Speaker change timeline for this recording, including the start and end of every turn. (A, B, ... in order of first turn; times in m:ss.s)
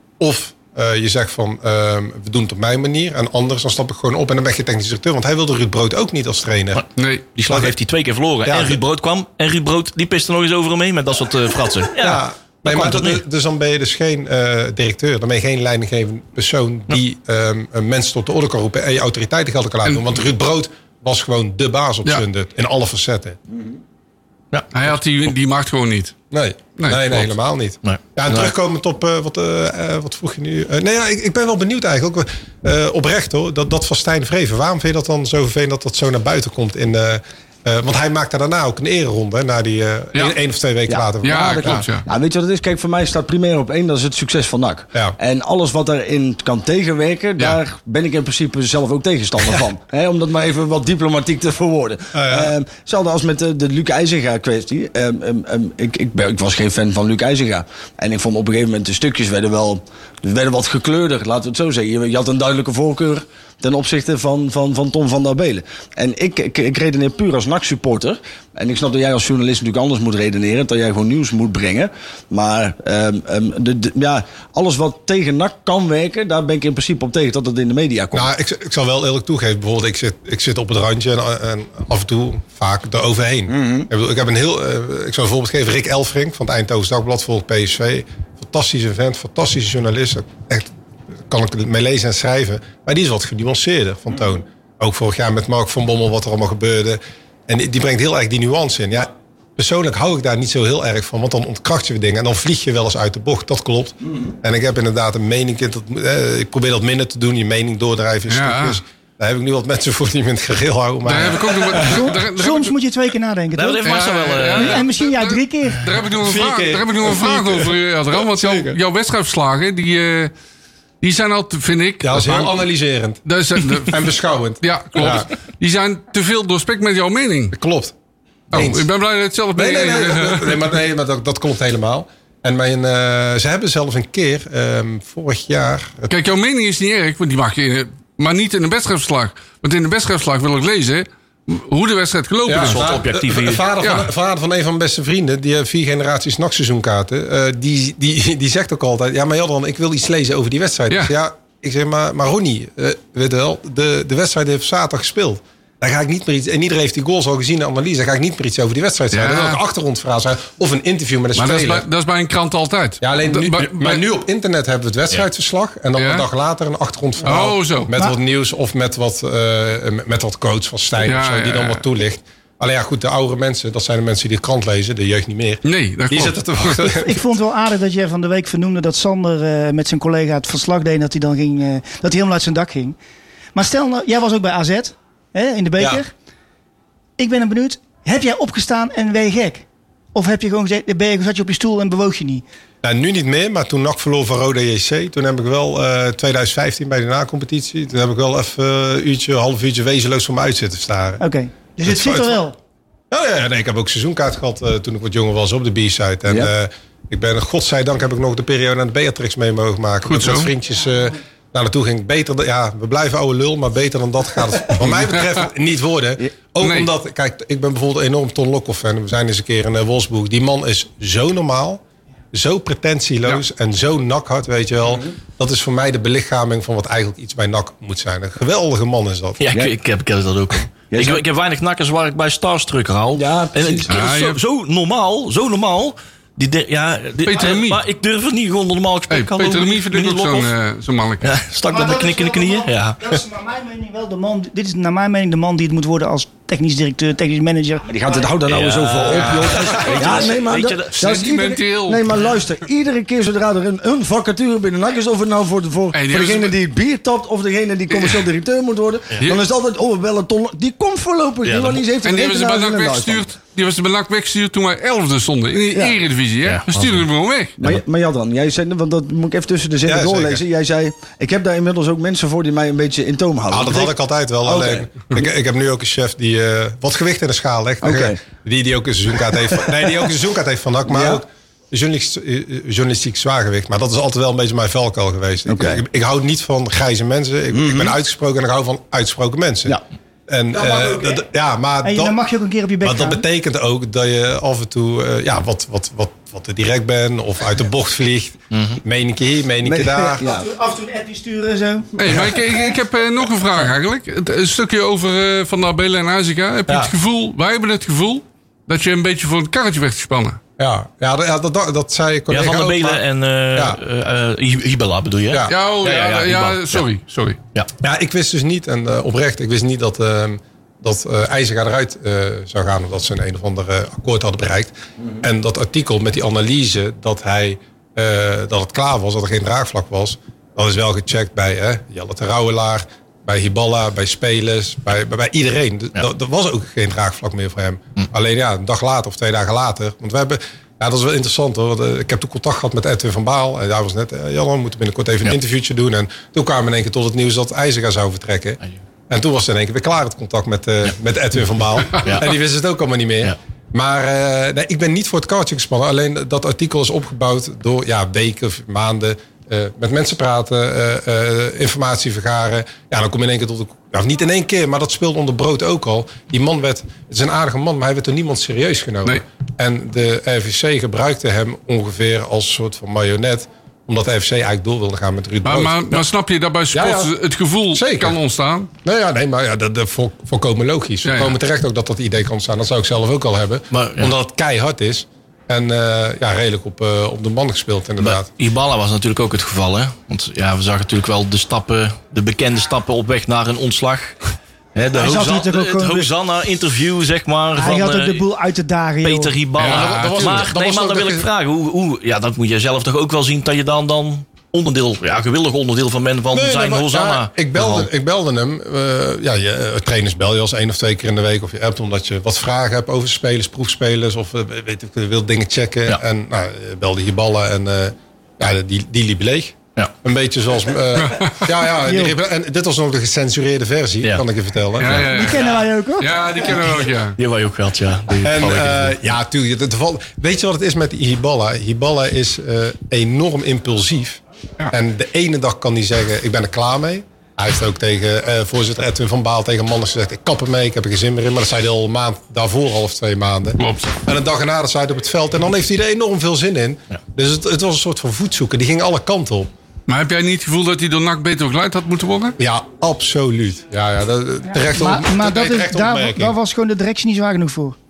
0:00.2-0:06.8 A
0:07.0-0:07.3 B
0:07.4-0:13.2 C
0:08.5-0:08.8 A
0:12.0-0:23.4 A
0:24.7-0:26.2 B
0:26.3-0:41.8 A
0:26.8-0:27.2 B
0:27.8-0:28.5 C
0:40.9-1:18.3 D
0:41.2-0:42.0 B
0:52.1-0:52.5 A
1:18.1-1:30.7 A
1:23.5-1:23.9 D
1:31.3-1:52.1 A
1:48.3-1:48.8 B
1:51.0-1:52.7 B
1:51.8-1:53.8 E
1:53.6-1:54.8 C
1:53.8-2:00.3 B
1:54.6-1:55.9 E
1:56.2-1:58.8 A
2:01.0-2:02.5 B
2:02.0-2:03.2 A
2:03.3-2:04.1 B
2:03.8-2:05.3 A
2:04.6-2:07.6 B
2:07.5-2:07.9 A
2:08.5-2:10.6 B
2:08.5-2:08.8 A
2:09.5-2:16.1 A
2:16.1-2:22.9 B
2:22.5-2:41.8 A
2:22.6-2:23.6 C
2:23.8-2:24.1 B
2:39.1-2:39.6 B
2:41.4-2:44.0 B
2:43.0-2:57.2 A
2:46.0-2:46.2 B
2:47.2-2:47.9 B
2:51.0-2:51.8 B
2:55.6-2:56.8 B
2:57.0-3:03.0 E
3:03.6-3:06.1 E
3:07.2-3:12.4 E
3:12.8-3:21.2 A
3:21.2-3:22.6 E
3:21.8-3:22.4 A
3:23.1-3:41.8 A
3:30.1-3:30.5 B
3:36.6-3:36.9 B
3:42.3-3:49.4 A
3:49.4-4:00.5 C
3:50.9-3:51.2 D
3:53.2-3:53.9 D
3:53.9-3:54.4 B
3:57.2-3:57.8 B
3:59.1-4:01.3 B
4:01.2-4:03.0 C
4:01.7-4:07.8 E
4:07.9-4:23.2 D
4:08.5-4:11.0 C
4:09.6-4:10.2 A
4:10.9-4:12.2 B
4:15.9-4:16.6 B
4:17.9-4:18.2 B
4:21.4-4:21.8 C
4:22.0-4:27.6 B
4:25.7-4:26.0 D
4:26.4-4:27.0 C
4:27.6-4:33.9 D
4:29.8-4:30.4 A
4:33.5-4:52.2 A
4:34.4-4:35.3 D
4:37.8-4:38.2 D
4:40.9-4:41.2 D
4:45.5-4:45.8 D
4:47.5-4:47.9 D
4:51.8-4:53.2 E
4:52.8-5:00.2 A
4:58.5-4:58.8 C
4:59.6-5:00.5 D
5:00.2-5:02.0 E
5:02.0-5:10.4 B
5:10.6-5:13.0 A
5:12.3-5:16.8 C
5:15.5-5:17.4 B
5:17.8-6:15.8 A
5:52.0-5:52.3 C
6:15.4-6:18.7 B
6:16.7-6:17.1 A
6:17.7-6:18.2 A
6:18.8-6:28.3 A
6:21.1-6:21.3 B
6:23.7-6:24.1 C
6:28.0-6:34.2 C
6:34.8-6:38.2 C
6:35.0-6:36.1 E
6:37.6-6:39.4 E
6:39.0-6:47.9 C
6:39.6-6:40.5 B
6:39.6-6:41.3 A
6:46.3-7:05.1 A
7:01.1-7:01.5 B
7:01.8-7:02.2 E
7:04.8-7:07.2 B
7:04.8-7:05.2 C
7:05.1-7:06.4 E
7:06.5-7:09.0 C
7:08.2-7:14.2 A
7:14.7-7:29.5 A
7:23.6-7:24.0 B
7:29.9-7:32.4 B
7:32.4-7:36.4 A
7:34.5-7:37.8 E